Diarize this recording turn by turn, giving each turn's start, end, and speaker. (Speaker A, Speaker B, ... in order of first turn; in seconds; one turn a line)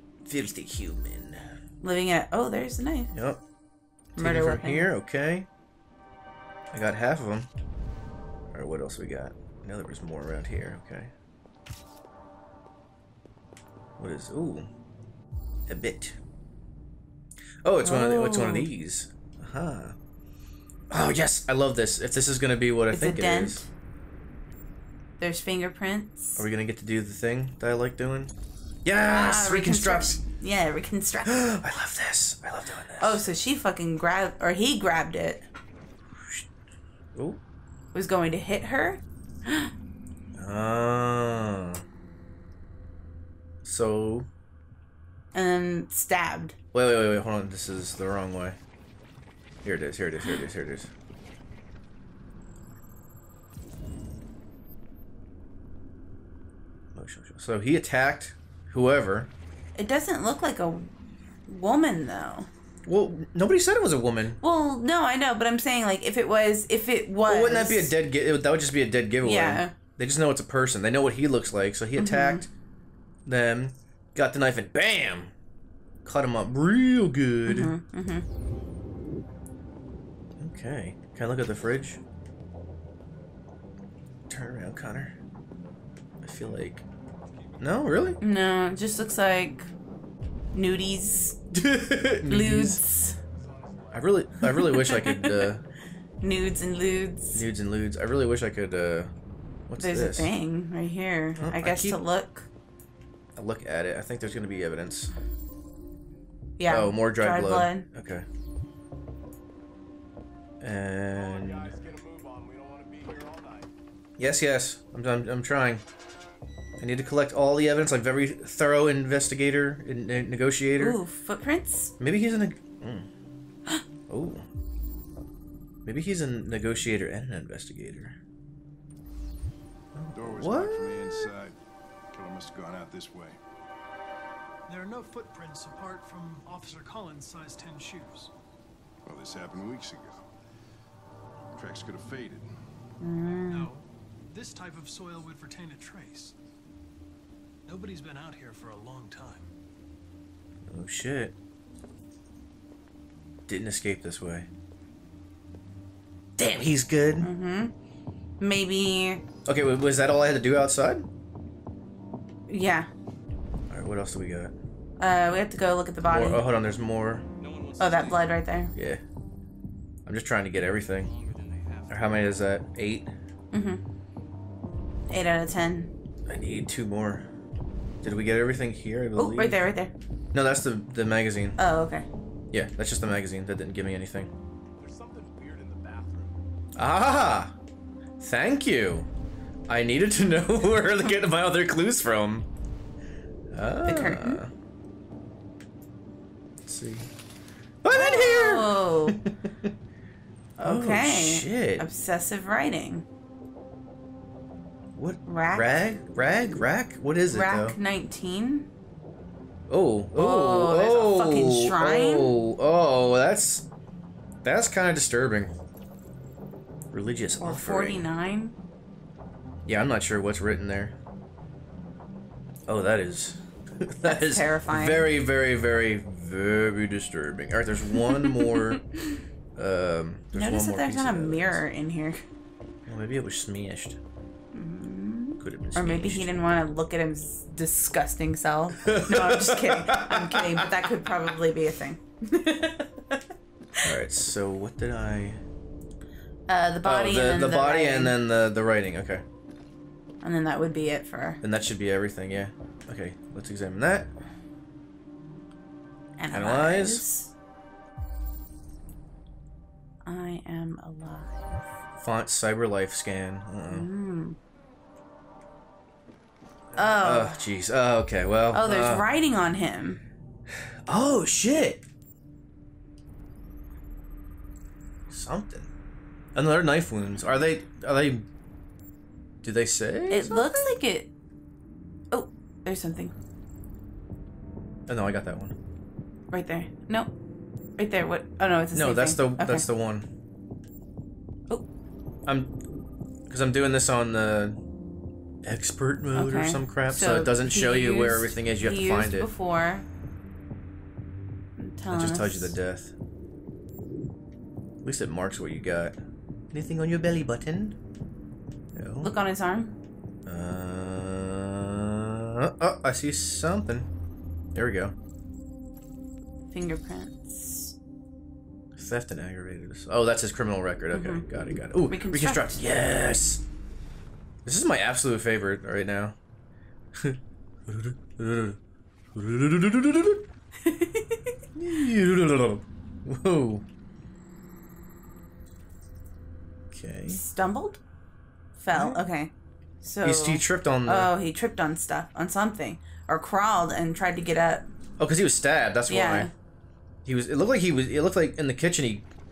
Speaker A: 0.2-1.4
Speaker B: 1.8-3.1
Speaker A: 3.1-3.4
Speaker B: 4.2-4.9
Speaker A: 4.2-5.5
Speaker A: 6.7-7.5
Speaker A: 8.5-11.1
Speaker A: 14.0-14.7
Speaker A: 15.7-16.2
Speaker A: 17.6-19.9
Speaker B: 17.8-18.7
Speaker A: 20.9-23.6
Speaker B: 22.9-23.7
Speaker B: 25.2-26.4
Speaker A: 26.4-28.3
Speaker A: 28.8-30.2
Speaker B: 29.1-31.5
Speaker A: 31.2-33.2
Speaker B: 33.0-35.5
Speaker A: 36.1-36.5
Speaker A: 37.1-37.4
Speaker B: 37.9-39.7
Speaker A: 40.3-41.8
Speaker A: 43.6-44.3
Speaker B: 45.3-46.6
Speaker A: 46.7-48.6
Speaker A: 49.6-50.9
Speaker A: 56.9-59.3
Speaker B: 59.8-60.9
Speaker B: 61.5-62.5
Speaker A: 62.8-64.4
Speaker B: 64.4-67.9
Speaker A: 67.2-72.5
Speaker B: 69.2-69.7
Speaker B: 72.0-72.5
Speaker A: 73.2-75.3
Speaker A: 76.0-77.7
Speaker B: 77.5-78.2
Speaker A: 80.4-82.0
Speaker A: 84.3-85.2
Speaker A: 86.2-86.8
Speaker A: 87.6-88.2
Speaker B: 88.2-89.7
Speaker B: 90.5-91.4
Speaker A: 91.5-92.8
Speaker B: 92.2-93.2
Speaker C: 93.3-94.2
Speaker A: 93.9-95.6
Speaker B: 94.4-95.5
Speaker B: 96.2-97.4
Speaker A: 97.3-99.1
Speaker A: 99.7-100.3
Speaker B: 99.8-102.5
Speaker A: 101.4-102.0
Speaker A: 103.3-105.1
Speaker B: 106.6-107.8
Speaker A: 106.7-108.2
Speaker A: 110.6-111.8
Speaker C: 111.1-113.7
Speaker A: 114.2-115.8
Speaker A: 116.8-121.0
Speaker B: 120.8-121.9
Speaker A: 122.0-123.1
Speaker A: 124.1-124.4
Speaker A: 125.8-128.2
Speaker A: 129.9-131.3
Speaker D: 130.1-131.6
Speaker D: 132.1-133.4
Speaker E: 134.7-138.3
Speaker D: 139.0-140.3
Speaker D: 141.5-142.5
Speaker B: 143.0-143.7
Speaker E: 143.5-146.3
Speaker E: 147.7-149.5
Speaker A: 150.7-151.3
Speaker A: 153.5-154.5
Speaker A: 156.4-157.3
Speaker B: 157.2-157.7
Speaker B: 158.4-159.2
Speaker A: 159.4-161.1
Speaker B: 162.5-162.9
Speaker A: 163.7-164.5
Speaker B: 165.0-166.4
Speaker A: 166.0-167.2
Speaker C: 167.4-168.3
Speaker B: 167.8-168.7
Speaker A: 168.7-169.0
Speaker A: 170.0-171.1
Speaker C: 170.9-172.2
Speaker A: 171.9-173.1
Speaker B: 173.5-173.8
Speaker B: 175.1-175.9
Speaker A: 176.2-177.3
Speaker A: 178.0-179.7
Speaker B: 179.2-179.9
Speaker A: 180.3-181.6
Speaker B: 181.6-182.1
Speaker A: 182.5-184.3
Speaker C: 184.8-186.4
Speaker A: 186.8-187.5
Speaker A: 188.2-189.1
Speaker A: 189.7-192.5
Speaker A: 193.5-194.5
Speaker B: 193.8-194.4
Speaker A: 196.7-197.1
Speaker A: 197.8-199.7
Speaker B: 197.9-199.2
Speaker B: 200.6-203.0
Speaker A: 200.6-201.8
Speaker A: 204.9-207.8
Speaker B: 205.2-205.7
Speaker B: 207.3-208.7
Speaker A: 209.7-213.7
Speaker B: 210.1-212.3
Speaker A: 214.4-215.5
Speaker A: 216.9-218.1
Speaker B: 217.4-218.6
Speaker A: 219.7-220.9
Speaker A: 222.7-228.8
Speaker B: 224.0-225.1
Speaker B: 228.0-229.2
Speaker A: 229.6-231.6
Speaker B: 230.3-232.2
Speaker A: 232.8-234.0
Speaker B: 234.5-243.3
Speaker A: 235.4-236.6
Speaker A: 238.8-240.9
Speaker A: 243.8-245.4
Speaker B: 246.5-248.2
Speaker A: 246.8-249.2
Speaker B: 250.2-251.4
Speaker A: 251.4-254.1
Speaker B: 256.2-257.3
Speaker A: 256.3-257.0
Speaker B: 260.0-261.4
Speaker A: 262.0-263.9
Speaker B: 263.7-264.4
Speaker A: 266.7-269.1
Speaker B: 266.8-267.5
Speaker B: 268.5-270.0
Speaker A: 270.9-271.8
Speaker A: 275.1-275.7
Speaker A: 276.3-278.3
Speaker A: 279.4-280.7
Speaker B: 280.1-281.1
Speaker B: 282.1-283.1
Speaker A: 284.9-285.6
Speaker B: 286.3-287.1
Speaker B: 287.8-289.7
Speaker A: 288.7-290.1
Speaker A: 292.2-292.6
Speaker A: 293.3-294.6
Speaker A: 295.4-299.3
Speaker B: 296.1-299.8
Speaker B: 301.6-302.6
Speaker A: 301.9-302.9
Speaker A: 304.8-305.9
Speaker A: 306.5-307.8
Speaker A: 308.7-309.1
Speaker B: 309.0-309.8
Speaker A: 310.2-313.9
Speaker A: 314.5-314.9
Speaker B: 316.5-317.7
Speaker A: 318.7-323.4
Speaker B: 320.9-321.3
Speaker B: 321.8-322.6
Speaker A: 324.4-326.2
Speaker A: 326.9-328.6
Speaker A: 329.1-330.2
Speaker B: 330.6-331.4
Speaker A: 331.6-333.6
Speaker A: 336.7-337.2
Speaker B: 337.1-337.8
Speaker B: 338.6-339.3
Speaker A: 338.7-339.0
Speaker B: 339.8-344.7
Speaker A: 340.0-341.1
Speaker A: 345.0-346.3
Speaker B: 345.9-346.3
Speaker A: 347.0-349.1